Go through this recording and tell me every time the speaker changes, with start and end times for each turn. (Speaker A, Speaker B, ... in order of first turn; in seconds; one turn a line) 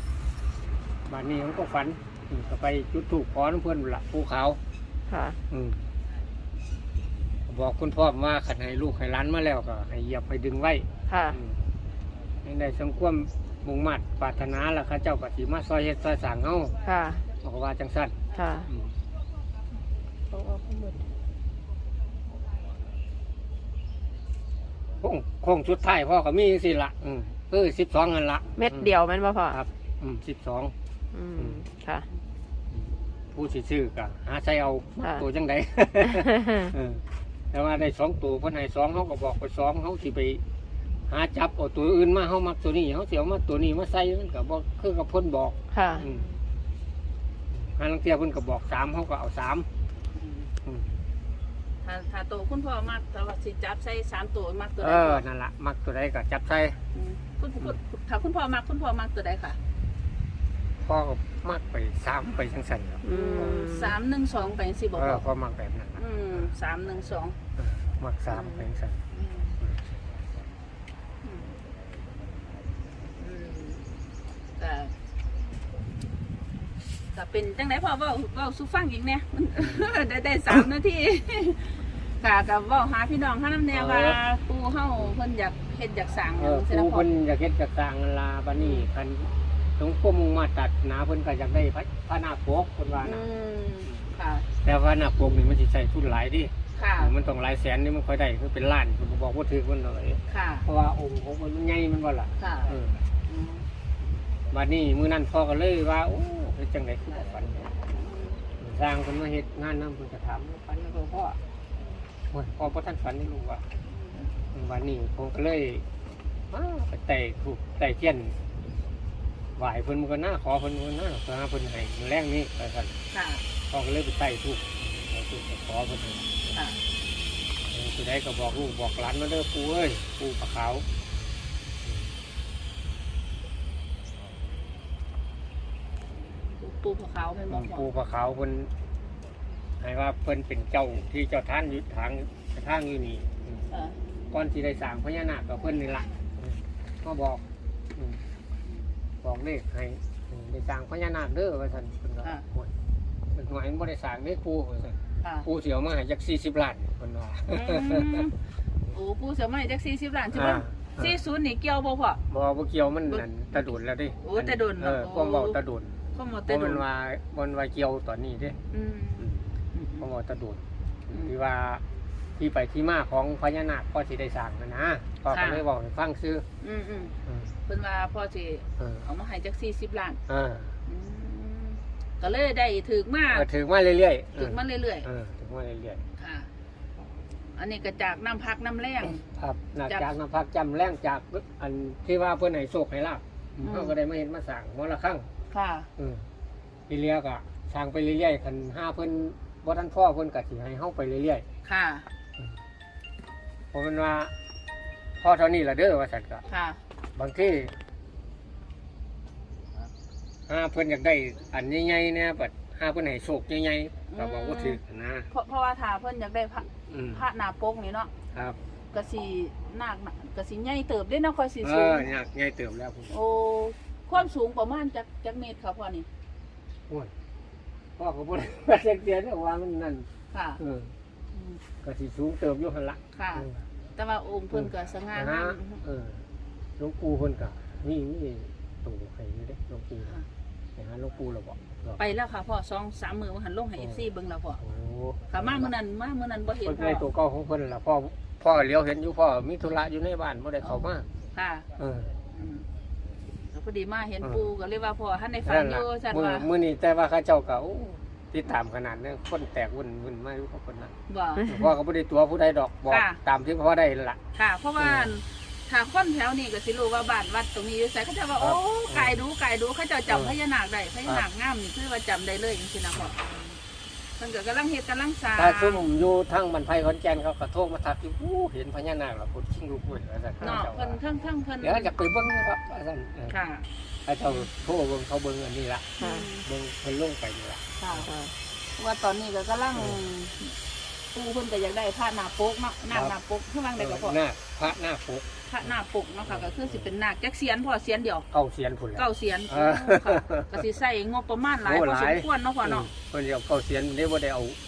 Speaker A: 1.1-4.6
Speaker B: 5.1-5.4
Speaker A: 5.5-5.9
Speaker A: 7.5-11.7
Speaker B: 11.1-11.4
Speaker A: 12.4-16.8
Speaker B: 16.8-17.2
Speaker A: 17.4-19.0
Speaker B: 18.3-18.7
Speaker B: 20.3-21.0
Speaker A: 25.0-28.9
Speaker B: 28.6-29.6
Speaker A: 29.5-30.7
Speaker B: 31.1-32.1
Speaker A: 31.4-31.6
Speaker A: 32.7-40.4
Speaker B: 35.0-35.2
Speaker B: 36.1-36.7
Speaker A: 41.1-46.2
Speaker B: 45.7-46.0
Speaker C: 45.9-46.3
Speaker A: 47.5-49.7
Speaker C: 50.1-50.5
Speaker A: 50.6-51.0
Speaker C: 51.8-55.2
Speaker A: 54.8-56.8
Speaker C: 56.9-59.6
Speaker A: 60.8-63.0
Speaker B: 63.0-63.9
Speaker C: 63.1-65.2
Speaker A: 64.9-66.5
Speaker C: 66.0-67.3
Speaker A: 67.6-69.0
Speaker B: 68.3-68.6
Speaker C: 69.1-69.6
Speaker A: 69.6-70.0
Speaker C: 71.2-71.5
Speaker C: 73.2-73.9
Speaker C: 74.6-74.9
Speaker C: 77.1-87.1
Speaker A: 83.7-84.2
Speaker A: 86.4-93.2
Speaker C: 88.5-88.9
Speaker C: 92.9-94.5
Speaker A: 94.6-103.0
Speaker C: 96.7-97.1
Speaker C: 100.3-100.7
Speaker C: 102.4-102.7
Speaker C: 103.2-103.7
Speaker A: 104.5-107.7
Speaker C: 107.9-108.4
Speaker A: 108.6-111.4
Speaker A: 112.3-113.6
Speaker C: 113.8-114.3
Speaker A: 114.5-115.8
Speaker A: 116.5-118.3
Speaker A: 119.6-123.0
Speaker C: 123.1-123.4
Speaker A: 123.7-126.6
Speaker C: 126.5-126.8
Speaker A: 127.7-130.8
Speaker A: 131.8-132.1
Speaker C: 136.6-137.9
Speaker A: 137.5-138.7
Speaker A: 139.8-143.7
Speaker C: 143.7-144.0
Speaker A: 144.3-147.4
Speaker A: 147.9-148.2
Speaker A: 149.2-152.7
Speaker A: 153.3-158.2
Speaker C: 155.2-155.5
Speaker C: 157.5-158.3
Speaker C: 158.9-162.2
Speaker A: 160.3-161.2
Speaker A: 162.3-165.9
Speaker C: 163.1-165.6
Speaker C: 166.1-166.8
Speaker A: 166.5-168.6
Speaker C: 168.7-170.1
Speaker A: 169.2-169.5
Speaker A: 170.0-171.8
Speaker A: 172.4-176.4
Speaker C: 175.3-175.7
Speaker C: 176.6-177.1
Speaker A: 177.2-177.6
Speaker C: 177.7-180.2
Speaker A: 178.8-179.1
Speaker A: 180.3-180.8
Speaker C: 180.9-183.5
Speaker A: 183.3-186.0
Speaker C: 184.3-185.1
Speaker C: 186.2-186.5
Speaker C: 187.6-189.2
Speaker A: 189.0-195.3
Speaker C: 193.6-193.9
Speaker C: 195.5-195.9
Speaker A: 196.0-196.3
Speaker A: 196.9-201.4
Speaker C: 201.6-202.1
Speaker A: 203.7-204.3
Speaker A: 205.2-206.4
Speaker C: 206.5-206.8
Speaker A: 207.2-207.7
Speaker A: 210.5-215.3
Speaker C: 214.1-214.8
Speaker C: 215.3-218.1
Speaker A: 216.9-217.2
Speaker A: 218.3-218.6
Speaker C: 218.9-222.1
Speaker A: 221.6-223.2
Speaker C: 223.1-226.1
Speaker A: 228.0-230.9
Speaker C: 230.3-230.6
Speaker C: 231.3-231.6
Speaker A: 231.8-233.6
Speaker C: 233.1-235.8
Speaker A: 234.5-236.2
Speaker A: 236.8-240.2
Speaker A: 240.8-242.0
Speaker C: 242.0-244.6
Speaker A: 243.8-244.0
Speaker A: 244.6-245.7
Speaker C: 245.3-247.1
Speaker A: 246.6-251.1
Speaker C: 250.6-251.7
Speaker A: 251.8-252.1
Speaker C: 252.3-252.7
Speaker C: 253.5-256.5
Speaker A: 255.4-260.9
Speaker C: 261.1-261.5
Speaker A: 261.5-264.2
Speaker C: 262.9-263.2
Speaker C: 264.3-273.6
Speaker A: 264.8-265.1
Speaker A: 268.4-269.2
Speaker A: 270.1-270.4
Speaker C: 274.2-275.8
Speaker A: 275.3-281.0
Speaker C: 280.4-282.0
Speaker A: 281.6-283.4
Speaker C: 283.3-283.7
Speaker A: 284.1-288.1
Speaker C: 286.0-286.5
Speaker B: 286.0-286.3
Speaker C: 287.8-288.1
Speaker B: 288.1-288.3
Speaker C: 288.8-290.6
Speaker C: 291.1-294.2
Speaker A: 292.9-293.1
Speaker A: 293.8-295.7
Speaker C: 295.5-298.3
Speaker A: 296.2-296.9
Speaker A: 298.3-300.6
Speaker C: 299.0-302.9
Speaker A: 301.6-304.6